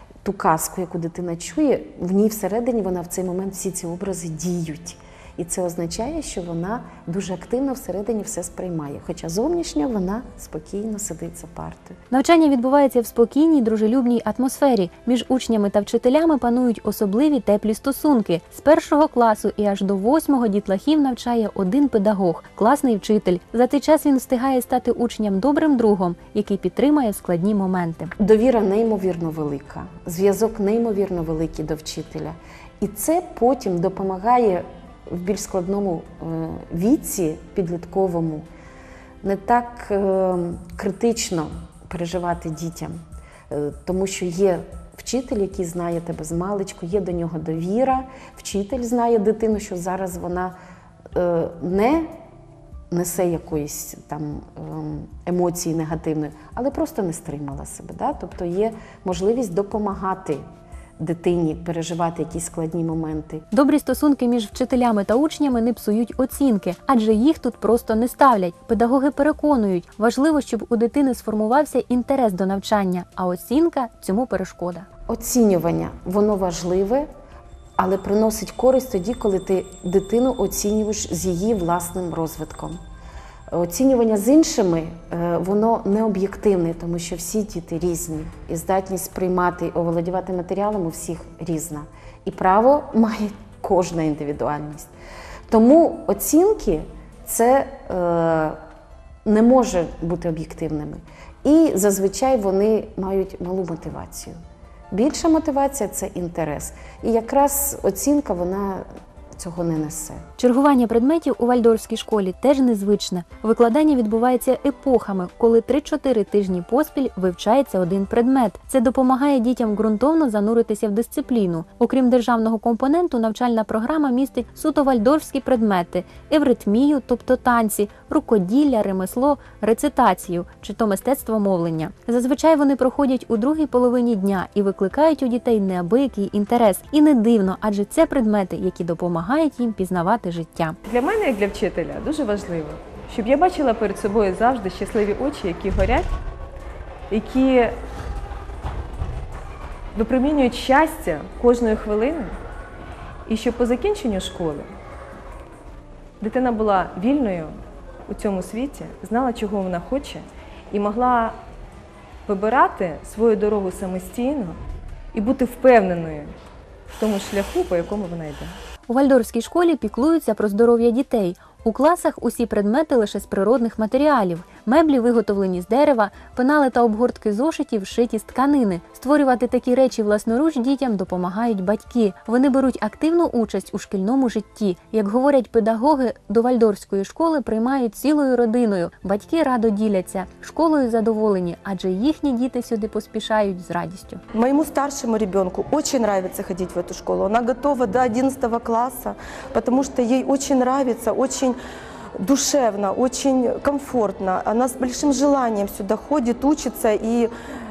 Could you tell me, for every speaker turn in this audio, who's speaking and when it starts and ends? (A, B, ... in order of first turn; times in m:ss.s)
0:00.2-0:12.0 A
0:12.1-0:28.1 B
0:28.2-0:38.4 A
0:39.2-0:42.9 A
0:43.5-0:50.6 A
0:51.1-0:52.1 A
0:52.9-1:00.4 A
1:01.0-1:03.4 A
1:03.5-1:14.9 B
1:15.1-1:17.1 A
1:17.8-1:22.8 A
1:23.5-1:34.9 A
1:35.5-1:38.6 A
1:39.2-1:44.4 A
1:44.9-1:50.2 A
1:50.4-2:20.8 B
2:20.8-2:26.1 C
2:27.1-2:27.8 C
2:29.9-2:32.4 C
2:33.2-2:34.7 C
2:36.2-2:41.4 C
2:42.2-2:44.6 C
2:45.1-2:46.4 C
2:46.9-2:48.6 C
2:48.9-3:14.2 B
3:14.3-3:21.6 D
3:22.2-3:27.3 D